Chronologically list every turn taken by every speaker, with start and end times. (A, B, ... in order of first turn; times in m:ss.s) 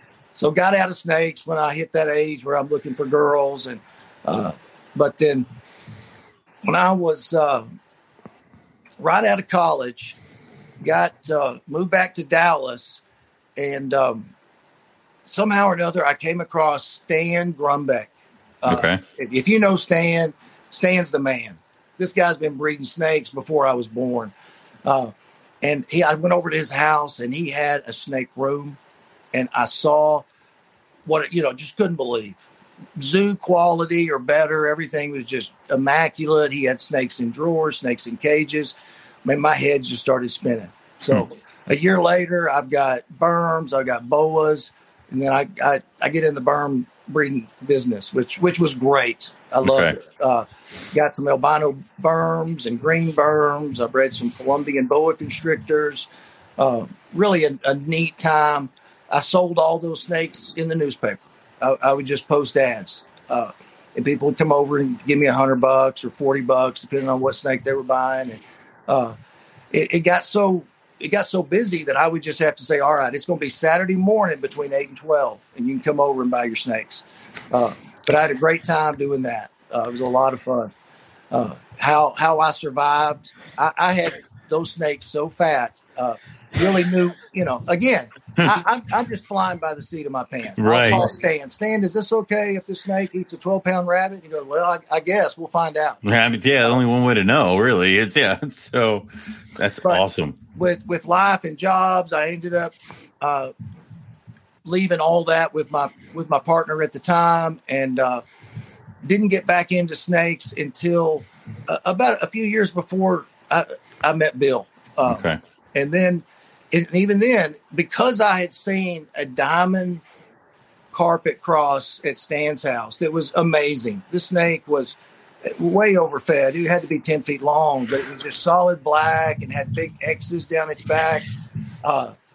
0:00.4-0:05.5 A
0:06.6-0:07.7 A
0:09.0-0:10.2 A
0:10.8-0:13.0 A
0:13.6-0:14.3 A
0:15.2-0:24.3 A
0:18.7-0:19.0 B
0:24.8-0:28.8 A
0:29.3-0:30.2 A
0:31.1-0:38.7 A
0:39.2-1:09.2 A
0:49.6-0:50.0 B
1:09.7-1:20.7 A
1:21.3-1:36.0 A
1:30.6-1:31.0 B
1:36.0-1:39.1 B
1:39.6-1:40.4 B
1:39.8-1:43.5 A
1:44.6-1:48.2 A
1:49.0-2:00.0 A
1:55.1-1:55.4 B
2:00.9-2:11.3 A
2:11.8-2:12.1 A